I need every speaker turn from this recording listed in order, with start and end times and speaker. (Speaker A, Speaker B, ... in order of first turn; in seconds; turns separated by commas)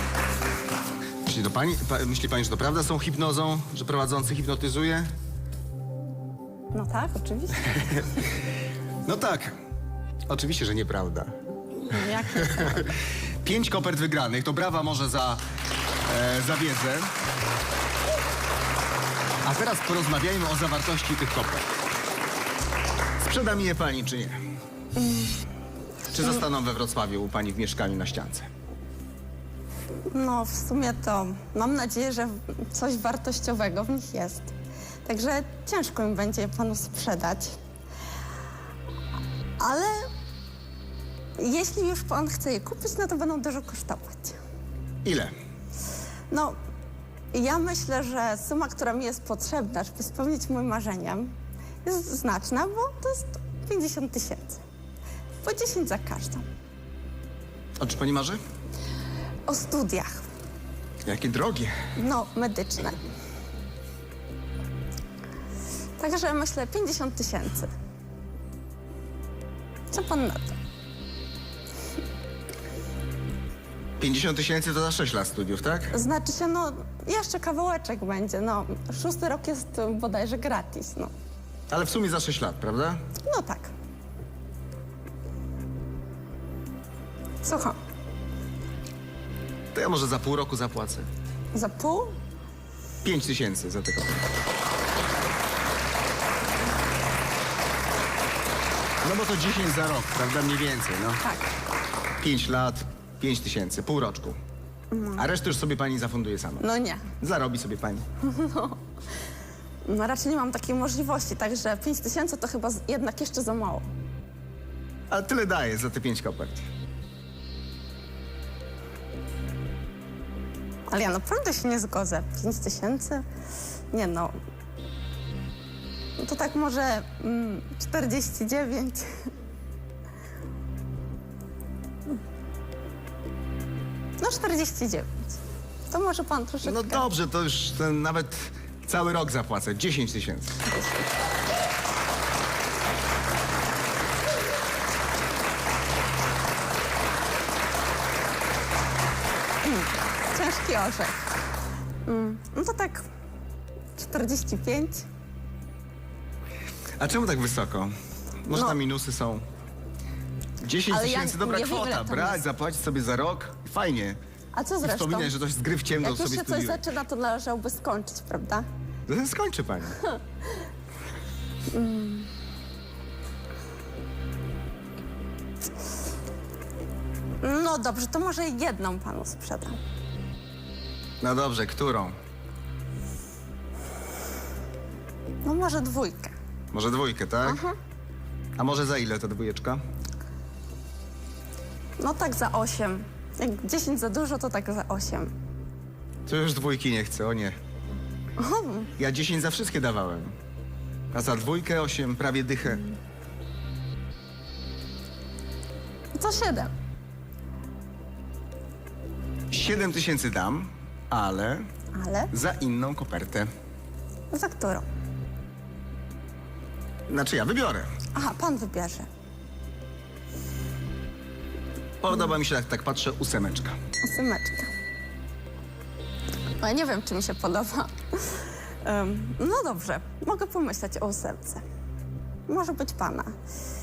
Speaker A: 1.2-5.1, Speaker B: 6.7-8.0, Speaker A: 7.7-8.2, Speaker A: 9.1-9.6, Speaker A: 10.3-11.3, Speaker B: 11.8-12.9, Speaker A: 12.4-12.9, Speaker A: 13.4-15.4, Speaker A: 16.1-17.1, Speaker A: 19.4-21.6, Speaker A: 23.2-24.4, Speaker B: 24.9-25.4, Speaker A: 26.1-28.5, Speaker B: 30.1-37.6, Speaker B: 39.6-40.1, Speaker B: 41.4-44.4, Speaker A: 45.0-45.3, Speaker B: 46.3-46.5, Speaker B: 47.3-54.6, Speaker B: 55.4-56.5, Speaker A: 57.8-58.4, Speaker B: 59.5-60.2, Speaker A: 61.0-61.7, Speaker B: 62.0-63.0, Speaker B: 66.0-67.7, Speaker B: 69.9-70.6, Speaker A: 74.0-76.0, Speaker B: 75.9-81.1, Speaker A: 81.7-83.0, Speaker B: 83.2-83.7, Speaker B: 87.4-87.8, Speaker A: 89.7-91.1, Speaker B: 91.5-92.2, Speaker A: 93.0-94.2, Speaker A: 99.0-101.2, Speaker A: 102.2-104.4, Speaker B: 104.9-105.2, Speaker A: 105.2-106.7, Speaker B: 106.6-107.0, Speaker A: 107.2-108.0, Speaker B: 108.2-108.8, Speaker B: 109.8-113.9, Speaker A: 115.1-116.7, Speaker B: 120.9-123.2, Speaker B: 123.9-124.3, Speaker B: 126.2-129.3, Speaker B: 134.2-137.1, Speaker A: 136.6-140.6, Speaker B: 140.7-141.1, Speaker B: 149.6-151.2, Speaker B: 152.1-153.1, Speaker B: 153.9-155.1, Speaker A: 157.0-159.4, Speaker B: 158.5-158.8, Speaker A: 160.6-164.2, Speaker B: 160.9-162.4, Speaker B: 164.5-165.3, Speaker A: 164.8-166.8, Speaker B: 166.0-168.7, Speaker A: 169.1-170.0, Speaker B: 171.7-172.3, Speaker B: 177.4-179.8, Speaker A: 181.2-182.2, Speaker B: 185.4-186.3, Speaker A: 186.7-187.6, Speaker B: 187.4-187.8, Speaker A: 188.6-189.8, Speaker B: 192.0-195.3, Speaker A: 196.2-197.6, Speaker B: 198.4-198.9, Speaker A: 199.0-200.3, Speaker A: 201.1-202.8, Speaker B: 206.2-206.7, Speaker A: 209.5-211.7, Speaker B: 211.9-212.3, Speaker A: 212.3-213.5, Speaker B: 214.3-214.8, Speaker A: 217.1-217.9, Speaker B: 218.1-219.1, Speaker A: 222.0-223.8, Speaker B: 224.0-224.7, Speaker B: 226.6-231.6, Speaker B: 232.5-233.4